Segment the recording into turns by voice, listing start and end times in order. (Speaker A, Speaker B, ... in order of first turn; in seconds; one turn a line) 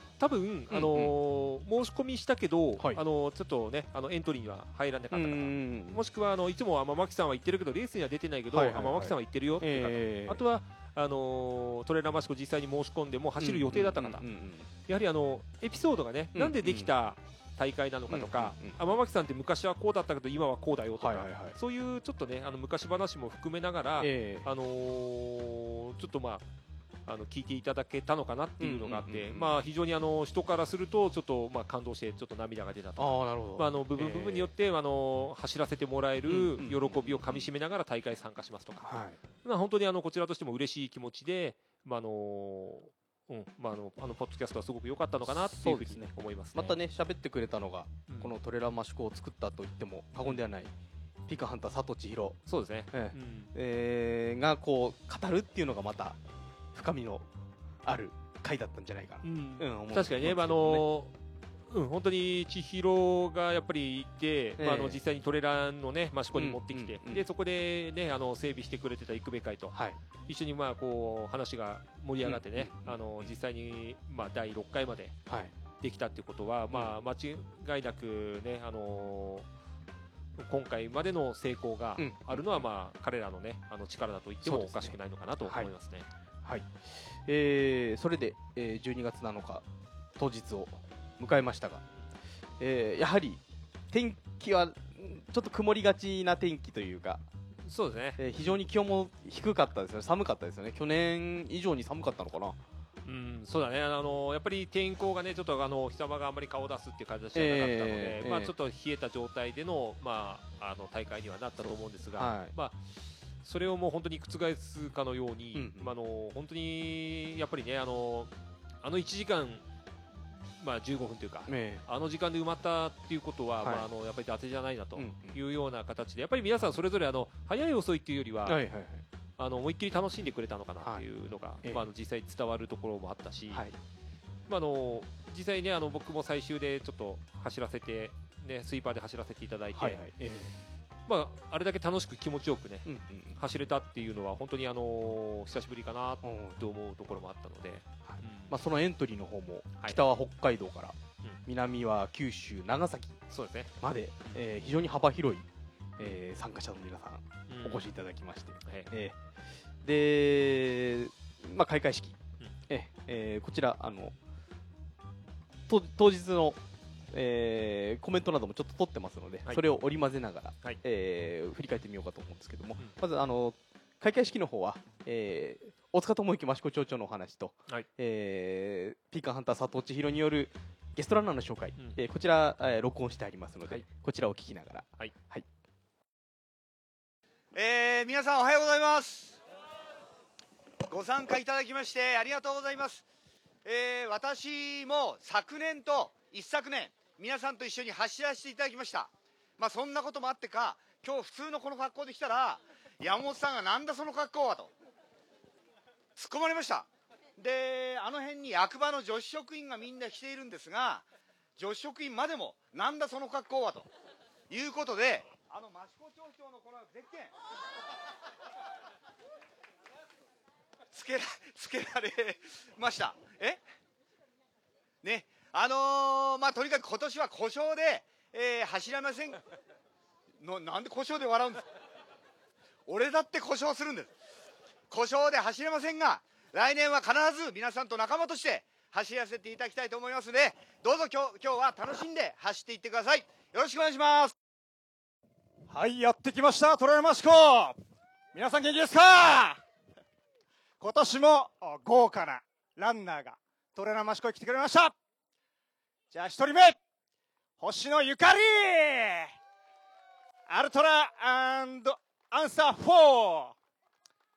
Speaker A: 0.2-14.2
Speaker B: 0.7-1.1
Speaker B: 5.1-6.0
Speaker B: 8.5-10.4
Speaker B: 13.4-14.7
Speaker A: 14.9-26.4
Speaker B: 16.4-16.9
Speaker B: 18.1-18.8
Speaker B: 21.0-21.6
Speaker B: 24.0-24.5
Speaker A: 27.1-38.9
Speaker B: 28.6-29.5
Speaker B: 33.0-34.5
Speaker B: 36.3-37.5
Speaker B: 38.8-39.2
Speaker A: 39.4-46.8
Speaker B: 45.3-50.7
Speaker B: 51.3-52.4
Speaker A: 52.5-53.5
Speaker B: 52.9-56.2
Speaker B: 56.7-57.2
Speaker B: 57.9-60.8
Speaker A: 59.2-61.1
Speaker A: 61.7-69.8
Speaker B: 64.6-65.0
Speaker B: 66.3-67.2
Speaker A: 70.3-75.2
Speaker B: 72.2-73.3
Speaker B: 75.3-75.5
Speaker A: 75.8-79.5
Speaker B: 76.7-77.0
Speaker A: 80.4-86.1
Speaker B: 82.0-82.6
Speaker B: 84.5-85.7
Speaker B: 86.5-89.6
Speaker B: 90.2-91.8
Speaker B: 92.6-97.2
Speaker A: 97.7-98.2
Speaker B: 98.2-102.6
Speaker A: 103.0-112.8
Speaker B: 107.3-108.5
Speaker B: 111.6-112.5
Speaker A: 113.4-118.3
Speaker B: 115.5-115.9
Speaker A: 118.8-119.6
Speaker A: 120.6-128.6
Speaker B: 121.5-121.8
Speaker B: 123.6-123.9
Speaker B: 125.0-125.4
Speaker B: 128.5-129.0
Speaker A: 129.4-133.6
Speaker A: 134.5-140.0
Speaker B: 139.8-140.6
Speaker A: 141.1-142.9
Speaker B: 142.9-143.4
Speaker A: 143.4-148.5
Speaker B: 146.2-146.6
Speaker B: 148.1-153.2
Speaker A: 153.3-153.7
Speaker B: 153.8-155.5
Speaker B: 156.0-159.2
Speaker A: 157.5-157.9
Speaker B: 159.8-162.2
Speaker B: 162.7-164.1
Speaker B: 165.7-166.6
Speaker B: 167.1-185.5
Speaker C: 187.5-189.4
Speaker C: 190.9-193.1
Speaker C: 193.6-204.7
Speaker C: 206.2-213.9
Speaker C: 214.5-217.3
Speaker C: 220.9-223.6
Speaker C: 225.0-229.4
Speaker C: 230.4-231.7
Speaker C: 232.9-234.1
Speaker C: 234.9-244.3
Speaker D: 245.7-247.8
Speaker D: 248.3-249.6
Speaker D: 250.8-254.9
Speaker D: 256.1-256.8
Speaker D: 257.6-259.4
Speaker D: 260.5-263.6